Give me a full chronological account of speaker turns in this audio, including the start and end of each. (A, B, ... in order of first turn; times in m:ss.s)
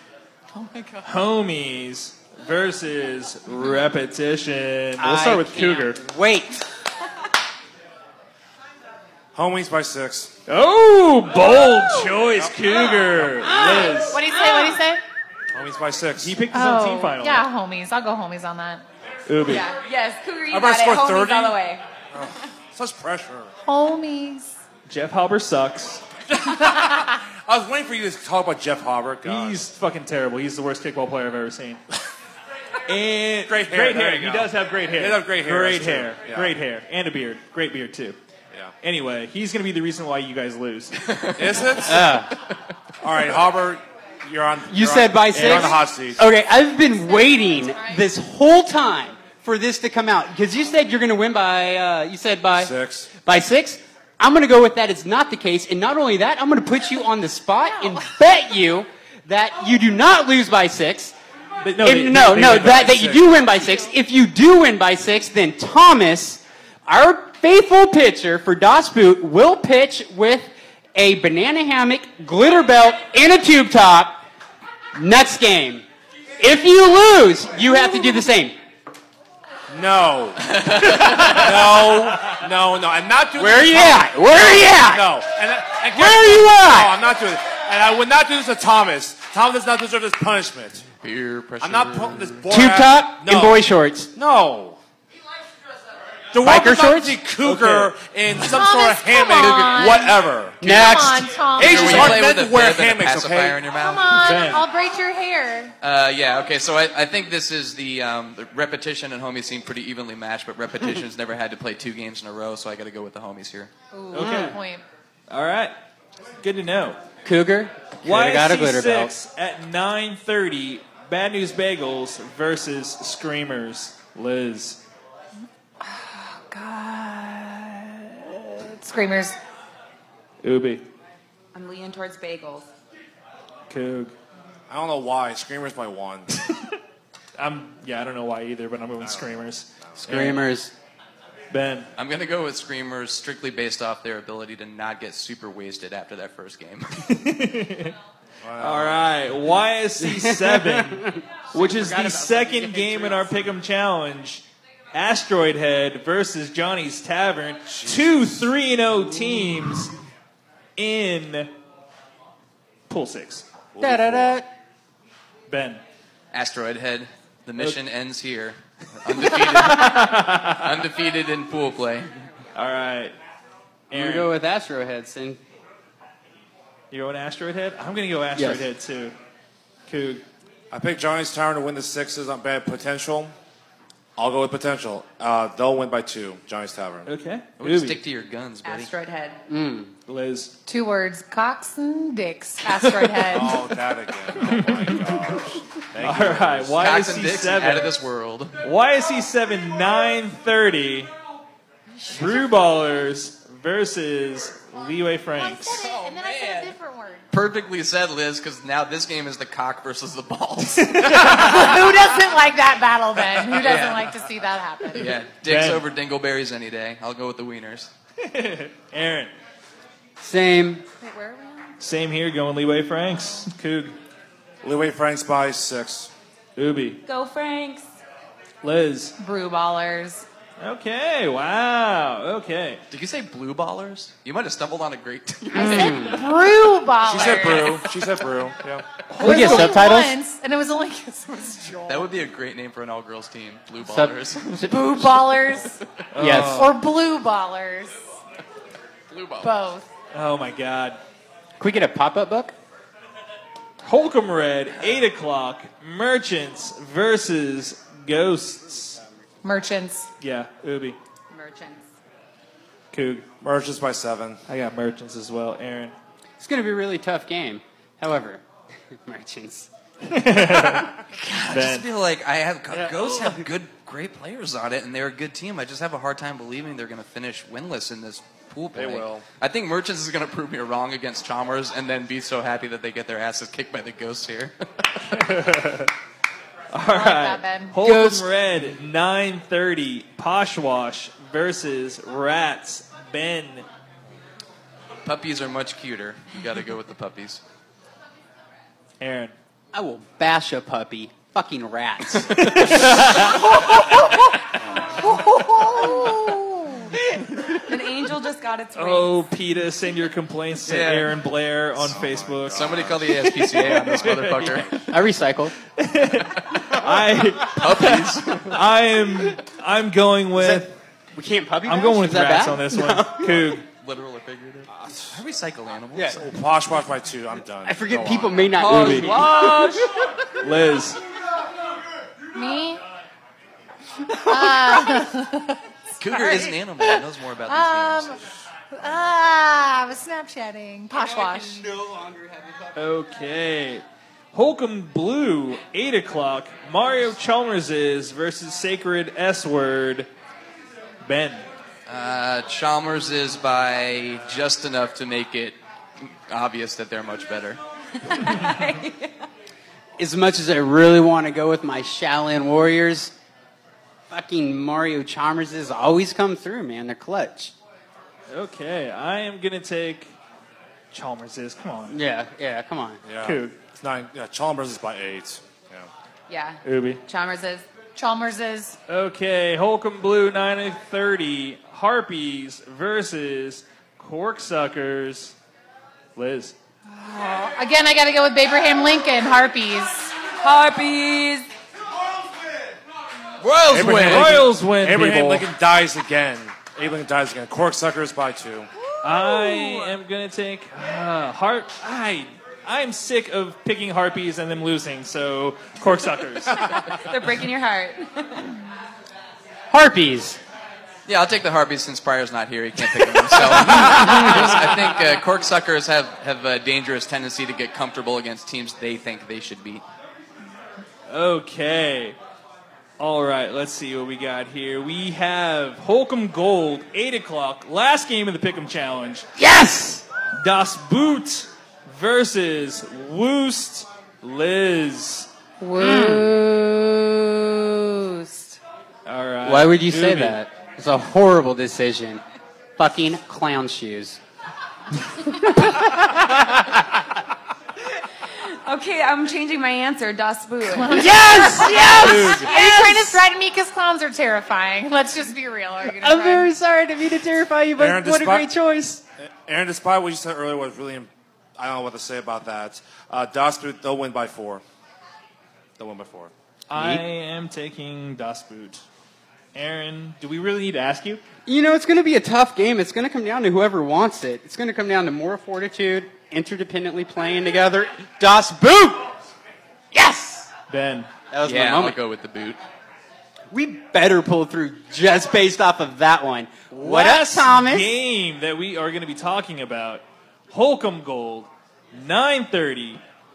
0:01.0-0:06.0 A
0:05.0-0:06.7 B
0:09.4-0:10.3 C
0:10.5-0:14.2 A
0:13.5-0:15.0 D
0:13.6-0:14.0 B
0:15.5-0:16.4 C
0:16.2-0:17.5 A
0:16.5-0:18.8 D
0:19.3-0:19.7 A
0:19.4-0:21.8 E
0:20.5-0:21.6 C
0:22.1-0:23.5 C
0:23.7-0:24.6 D
0:24.9-0:26.0 A
0:26.3-0:29.6 C
0:29.2-0:31.8 A
0:32.9-0:38.2 A
0:33.5-0:36.5 C
0:38.8-0:41.0 A
0:41.1-0:41.6 F
0:41.4-0:42.2 C
0:41.8-0:42.3 B
0:43.0-0:46.2 C
0:44.7-0:52.7 B
0:45.3-0:45.8 A
0:52.6-0:53.1 C
0:53.2-1:01.1 B
0:57.7-0:58.1 D
1:01.6-1:03.1 A
1:01.8-1:14.2 B
1:02.2-1:03.4 C
1:14.9-1:15.8 B
1:16.4-1:18.6 B
1:19.7-1:30.9 C
1:20.5-1:21.5 F
1:23.4-1:25.0 B
1:25.9-1:26.9 B
1:31.0-1:32.4 F
1:31.6-1:33.6 C
1:32.5-1:34.1 B
1:34.2-1:34.8 C
1:36.3-1:40.6 C
1:36.4-1:37.2 B
1:37.4-1:37.9 A
1:38.4-1:42.3 D
1:39.4-1:40.0 F
1:40.6-1:41.2 B
1:40.6-1:44.4 F
1:41.4-1:43.6 C
1:43.8-1:45.7 D
1:44.2-1:44.6 A
1:45.8-1:53.7 F
1:53.9-1:54.8 D
1:54.1-1:54.6 A
1:54.2-1:54.6 B
1:55.3-1:55.7 A
1:56.4-1:57.0 A
1:57.2-1:59.1 B
1:58.0-2:04.8 A
2:05.8-2:09.4 D
2:10.4-2:10.9 A
2:11.5-2:12.7 E
2:13.7-2:14.1 A
2:14.7-2:16.4 C
2:17.4-2:20.5 A
2:20.0-2:20.7 B
2:21.5-2:21.9 A
2:22.0-2:27.1 F
2:27.1-2:28.0 A
2:28.4-2:29.1 C
2:28.6-2:39.9 A
2:30.0-2:33.2 B
2:37.8-2:38.3 C
2:40.8-2:41.5 A
2:42.9-2:43.5 A
2:43.7-2:44.4 C
2:43.8-2:44.5 B
2:45.5-2:45.8 A
2:46.3-2:52.1 F
2:49.5-2:50.8 A
2:52.6-2:53.2 A
2:53.9-2:55.4 B
2:53.9-2:54.3 A
2:56.9-2:59.2 A
2:58.4-2:58.6 B
2:59.9-3:00.2 A
3:00.7-3:03.3 C
3:04.2-3:07.1 C
3:07.1-3:08.0 A
3:07.6-3:08.9 F
3:08.6-3:09.4 E
3:09.5-3:09.9 B
3:10.1-3:10.5 A
3:10.7-3:13.7 D
3:12.8-3:13.1 F
3:13.3-3:16.8 C
3:14.4-3:18.0 A
3:16.8-3:18.6 F
3:18.6-3:21.1 A
3:22.1-3:25.8 A
3:25.4-3:27.3 D
3:25.8-3:26.7 F
3:27.3-3:32.1 F
3:30.8-3:31.7 A
3:31.0-3:35.1 D
3:33.4-3:34.3 F
3:34.9-3:37.9 F
3:35.4-3:35.9 A
3:38.2-3:39.3 A
3:40.2-3:40.8 B
3:41.0-3:41.7 D
3:41.8-3:44.0 A
3:44.6-3:46.1 C
3:46.6-3:47.0 A
3:47.0-3:47.9 E
3:48.6-3:49.2 A
3:49.2-3:50.3 D
3:50.6-3:52.8 A
3:52.9-3:56.6 F
3:55.5-3:56.2 B
3:55.6-3:57.9 D
3:57.0-3:58.9 C
3:57.1-3:57.8 E
3:59.1-3:59.8 A
3:59.2-4:02.1 D
3:59.2-4:00.2 B
4:01.9-4:05.0 F
4:03.8-4:05.2 B
4:04.7-4:05.8 D
4:06.1-4:06.8 A
4:06.2-4:06.6 B
4:06.4-4:08.1 D
4:09.1-4:09.6 F
4:09.4-4:09.9 D
4:10.1-4:11.0 A
4:11.6-4:12.5 B
4:13.8-4:19.0 A
4:19.4-4:20.1 D
4:20.2-4:21.0 A
4:21.3-4:21.9 E
4:22.9-4:23.3 A
4:23.4-4:24.4 C
4:24.5-4:26.0 A
4:26.4-4:28.4 B
4:29.0-4:29.7 B
4:30.0-4:30.9 A
4:31.1-4:45.2 F
4:31.5-4:31.9 A
4:38.7-4:39.2 C
4:45.1-4:45.9 A
4:46.7-4:53.7 A
4:46.8-4:47.8 D
4:47.8-4:48.3 B
4:55.0-4:57.4 F
4:59.0-4:59.3 A
4:59.7-5:02.3 B
5:02.2-5:03.4 F
5:02.4-5:03.9 A
5:05.7-5:06.9 D
5:07.1-5:07.7 A
5:07.7-5:09.3 E
5:08.8-5:14.7 A
5:10.6-5:11.1 F
5:11.8-5:14.7 C
5:12.5-5:14.8 F
5:14.9-5:15.5 B
5:15.8-5:20.8 A
5:17.4-5:18.6 F
5:20.4-5:23.6 B
5:21.6-5:23.7 A
5:23.8-5:26.3 F
5:24.8-5:25.1 C
5:26.2-5:28.5 C
5:27.6-5:29.7 B
5:28.6-5:29.8 F
5:28.6-5:29.5 A
5:29.4-5:29.8 E
5:30.4-5:31.0 A
5:32.3-5:32.8 D
5:34.2-5:35.6 D
5:36.0-5:38.2 F
5:36.2-5:41.7 D
5:42.8-5:50.1 A
5:51.0-5:51.4 A
5:51.9-5:57.6 F
5:58.0-5:59.3 E
6:00.0-6:03.1 B
6:04.1-6:07.5 B
6:08.3-6:10.2 A
6:10.9-6:12.0 A
6:11.9-6:13.0 B
6:13.0-6:15.9 C
6:13.2-6:13.6 A
6:16.3-6:17.7 E
6:16.6-6:17.0 A
6:18.0-6:18.8 D
6:18.9-6:25.4 A
6:26.2-6:26.6 A
6:26.9-6:30.2 D
6:30.3-6:31.5 E
6:33.4-6:34.4 F
6:33.7-6:38.7 C
6:33.7-6:35.5 A
6:39.0-6:46.8 A
6:39.1-6:40.0 E
6:47.0-6:48.6 E
6:49.7-6:50.4 B
6:51.1-6:59.8 F
6:53.5-6:54.6 B
7:01.1-7:02.2 A
7:03.0-7:09.3 A
7:09.4-7:10.1 B
7:10.4-7:15.3 A
7:15.6-7:18.6 D
7:15.8-7:16.3 B
7:19.1-7:20.4 A
7:19.4-7:22.2 B
7:22.8-7:24.2 B
7:25.3-7:26.3 B
7:28.4-7:31.2 E
7:30.7-7:36.5 D
7:30.9-7:32.6 B
7:31.7-7:32.7 A
7:36.0-7:39.0 B
7:37.8-7:38.5 C
7:39.3-7:44.6 C
7:45.8-7:46.3 C
7:46.7-7:48.8 A
7:46.8-7:47.0 B
7:49.5-7:51.2 A
7:51.5-7:59.1 B
7:59.9-8:00.5 B
8:00.7-8:01.1 A
8:01.3-8:02.0 B
8:01.4-8:02.6 F
8:03.5-8:07.9 B
8:06.7-8:13.0 A